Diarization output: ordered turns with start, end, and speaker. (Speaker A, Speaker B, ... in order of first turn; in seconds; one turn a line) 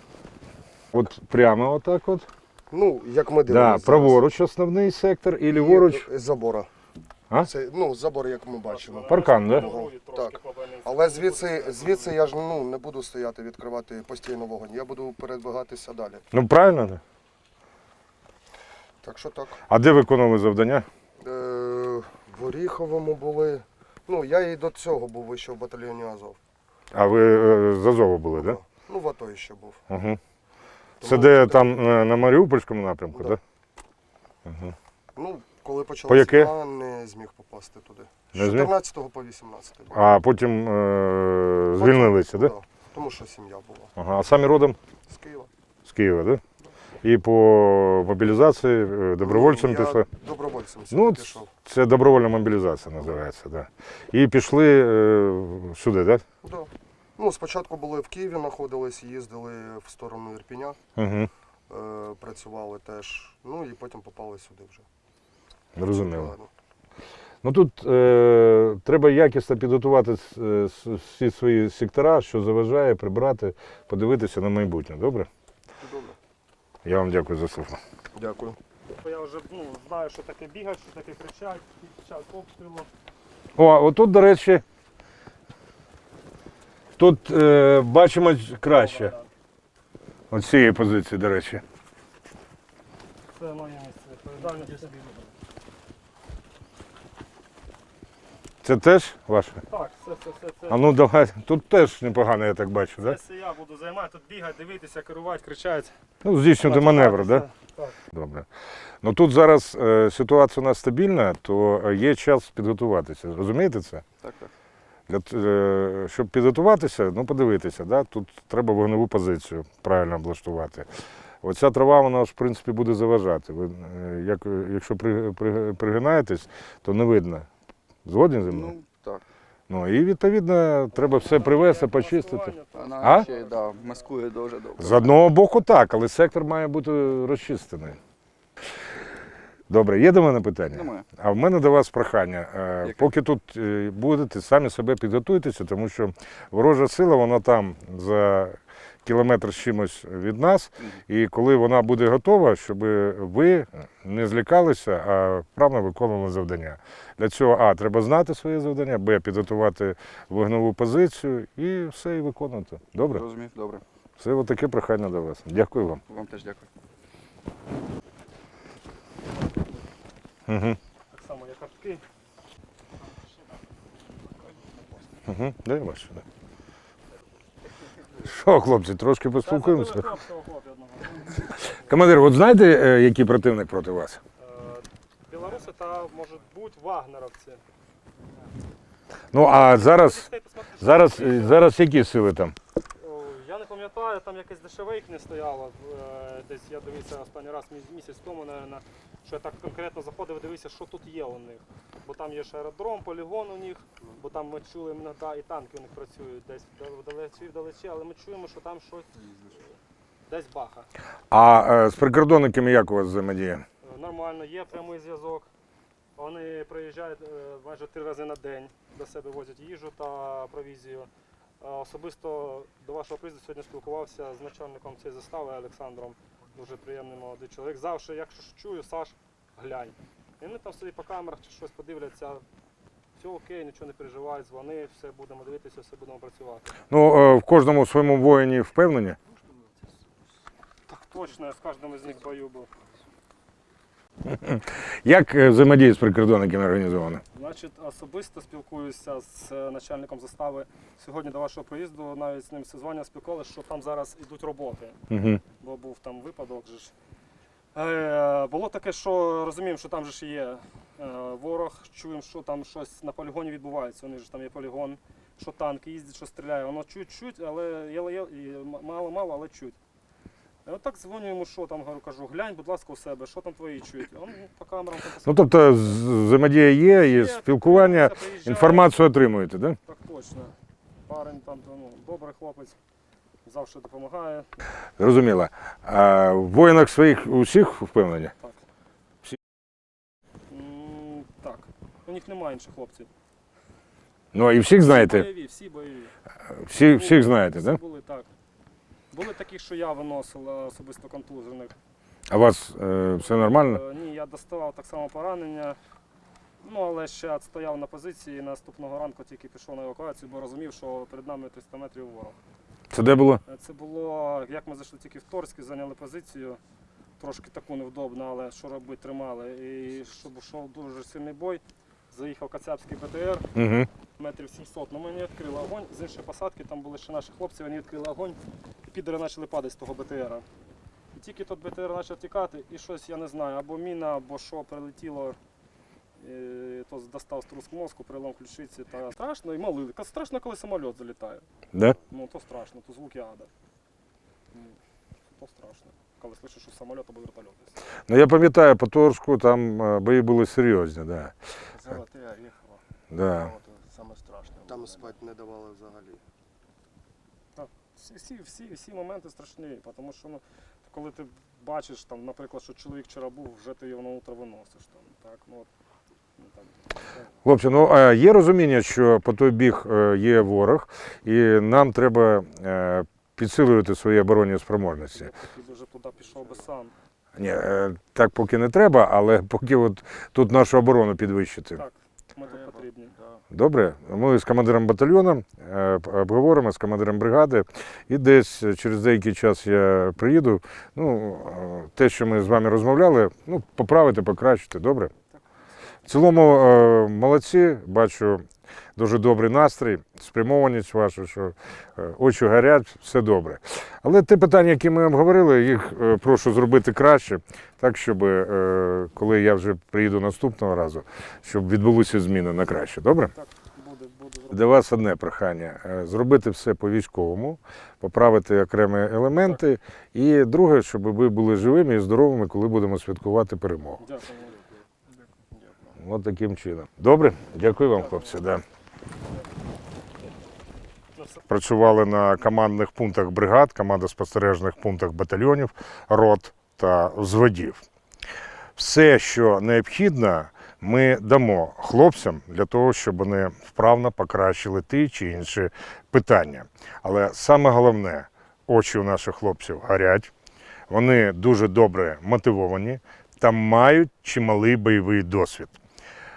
Speaker A: 0.9-2.2
Speaker B: 2.7-4.2
Speaker A: 3.5-6.1
Speaker B: 5.5-6.7
Speaker B: 7.4-16.2
Speaker C: 8.6-12.2
Speaker A: 9.1-9.7
Speaker A: 16.3-17.0
Speaker B: 19.0-19.6
Speaker A: 19.7-20.9
Speaker B: 21.2-26.4
Speaker A: 26.9-28.6
Speaker B: 28.4-29.8
Speaker A: 29.9-30.2
Speaker B: 31.0-31.8
Speaker A: 31.0-33.4
Speaker A: 34.5-34.7
Speaker B: 35.1-40.0
Speaker A: 36.1-36.5
Speaker A: 38.3-38.7
Speaker A: 39.9-42.5
Speaker B: 41.8-43.9
Speaker A: 44.0-44.8
Speaker B: 45.1-45.5
Speaker A: 45.8-46.4
Speaker A: 47.0-50.0
Speaker B: 49.2-51.5
Speaker A: 50.9-56.2
Speaker B: 56.4-60.8
Speaker A: 61.0-61.3
Speaker B: 61.7-64.8
Speaker A: 65.8-66.3
Speaker B: 65.9-66.5
Speaker A: 67.4-75.3
Speaker B: 75.8-76.2
Speaker A: 76.8-77.8
Speaker B: 78.1-78.6
Speaker C: 78.9-82.9
Speaker A: 83.5-84.6
Speaker A: 87.0-89.1
Speaker C: 88.6-89.3
Speaker A: 90.3-91.6
Speaker C: 93.3-95.0
Speaker A: 98.6-99.6
Speaker C: 99.7-100.8
Speaker A: 100.7-103.2
Speaker C: 103.0-105.9
Speaker A: 106.2-107.4
Speaker C: 106.6-108.0
Speaker A: 108.1-108.5
Speaker A: 109.0-114.0
Speaker D: 114.2-114.5
Speaker A: 115.1-120.9
Speaker A: 121.4-127.5
Speaker A: 128.0-128.7
Speaker D: 128.4-129.2
Speaker A: 129.7-133.3
Speaker C: 130.9-134.1
Speaker D: 132.7-135.1
Speaker A: 134.8-138.0
Speaker A: 139.7-163.2
Speaker D: 140.7-141.1
Speaker D: 163.1-163.8
Speaker A: 164.2-166.0
Speaker D: 166.1-166.7
Speaker A: 170.5-170.8
Speaker C: 171.1-172.0
Speaker C: 173.1-173.3
Speaker A: 175.2-176.2
Speaker A: 178.2-180.1
Speaker C: 179.4-181.8
Speaker A: 181.7-184.2
Speaker C: 184.4-187.6
Speaker A: 189.3-190.3
Speaker C: 189.7-191.7
Speaker A: 190.8-192.5
Speaker C: 192.9-209.5
Speaker C: 210.3-210.9
Speaker A: 211.3-213.6
Speaker C: 213.8-215.5
Speaker C: 216.2-221.1
Speaker C: 221.6-232.4
Speaker C: 233.2-236.7
Speaker A: 236.9-239.2
Speaker C: 240.9-242.7
Speaker A: 244.2-247.2
Speaker C: 247.3-255.0
Speaker A: 255.1-255.4
Speaker C: 255.6-256.9
Speaker C: 257.7-269.8
Speaker C: 270.6-276.0
Speaker A: 275.2-279.8
Speaker C: 276.9-278.9
Speaker C: 279.8-280.5
Speaker C: 281.1-282.8
Speaker C: 283.4-284.5
Speaker A: 285.0-288.3
Speaker C: 290.5-293.1
Speaker A: 294.3-295.3
Speaker C: 294.8-296.1
Speaker A: 296.6-297.8
Speaker C: 296.7-298.3
Speaker C: 299.1-301.7
Speaker A: 302.3-303.8
Speaker C: 303.2-305.8
Speaker C: 306.6-312.4
Speaker A: 312.9-313.4
Speaker C: 313.4-316.6
Speaker C: 317.2-323.4
Speaker A: 323.5-323.9
Speaker C: 324.2-330.4
Speaker C: 331.1-335.4
Speaker C: 336.2-341.4
Speaker C: 342.1-343.5
Speaker C: 344.5-344.8
Speaker C: 345.3-347.8
Speaker A: 348.1-351.3
Speaker E: 351.8-352.7
Speaker A: 353.1-353.5
Speaker E: 353.4-355.1
Speaker B: 354.6-356.2
Speaker C: 357.5-365.7
Speaker C: 366.4-367.3
Speaker A: 367.4-375.3
Speaker C: 375.1-376.9
Speaker A: 377.3-381.8
Speaker C: 381.7-383.1
Speaker A: 383.5-395.1
Speaker A: 396.1-413.3
Speaker C: 413.3-414.8
Speaker A: 414.5-424.0
Speaker C: 424.0-424.6
Speaker A: 425.9-428.6
Speaker C: 431.1-431.4
Speaker A: 431.5-437.8
Speaker A: 438.8-450.3
Speaker A: 450.9-455.8